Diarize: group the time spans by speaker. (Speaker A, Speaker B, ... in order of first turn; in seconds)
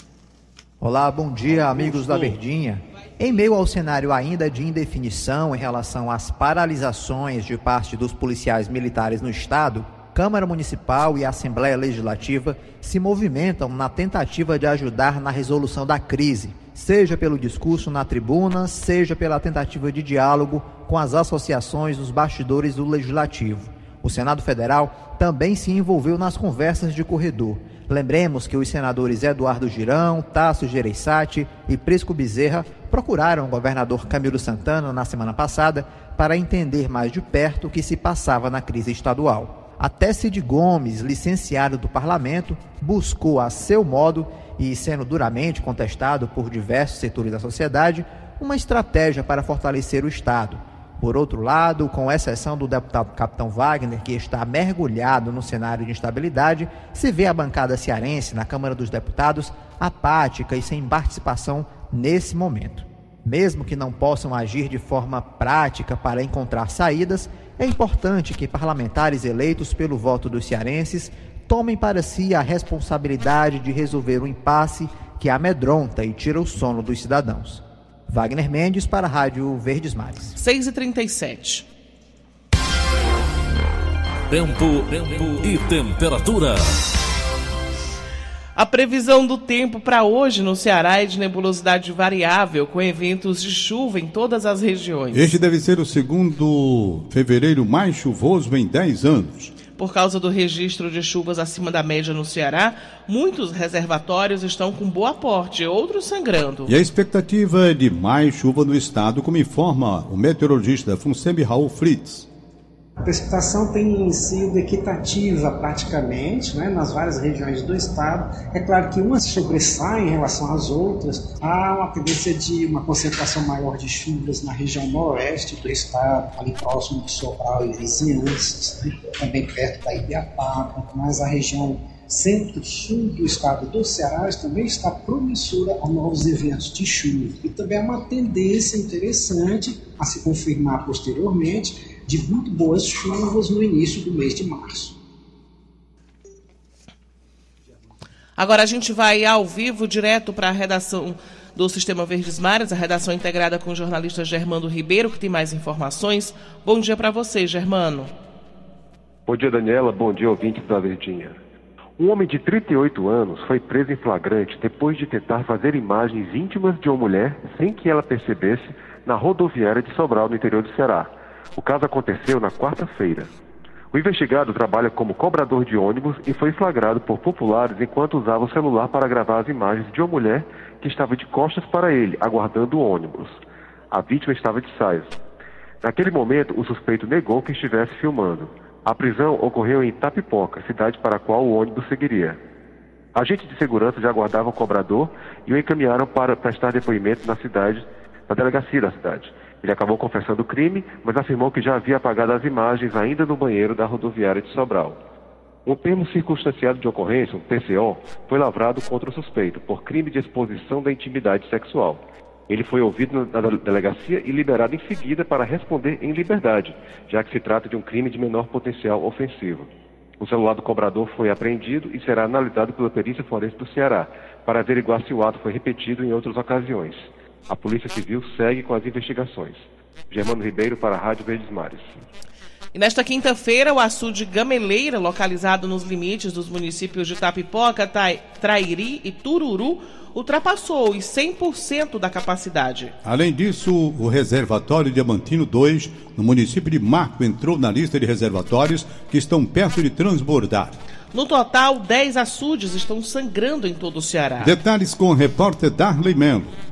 Speaker A: 0.8-80.3
Speaker B: 80.3-81.6, 88.5-95.3, 99.8-106.7, 148.4-158.1, 232.7-242.9, 251.1-254.5
Speaker C: 84.3-86.6
Speaker D: 95.1-99.5, 106.7-112.3, 243.0-250.8, 254.4-256.5
Speaker E: 113.0-144.9
Speaker F: 159.3-161.4, 162.0-173.3, 173.9-183.4, 183.9-185.2, 185.8-192.4, 193.1-205.0, 205.7-232.1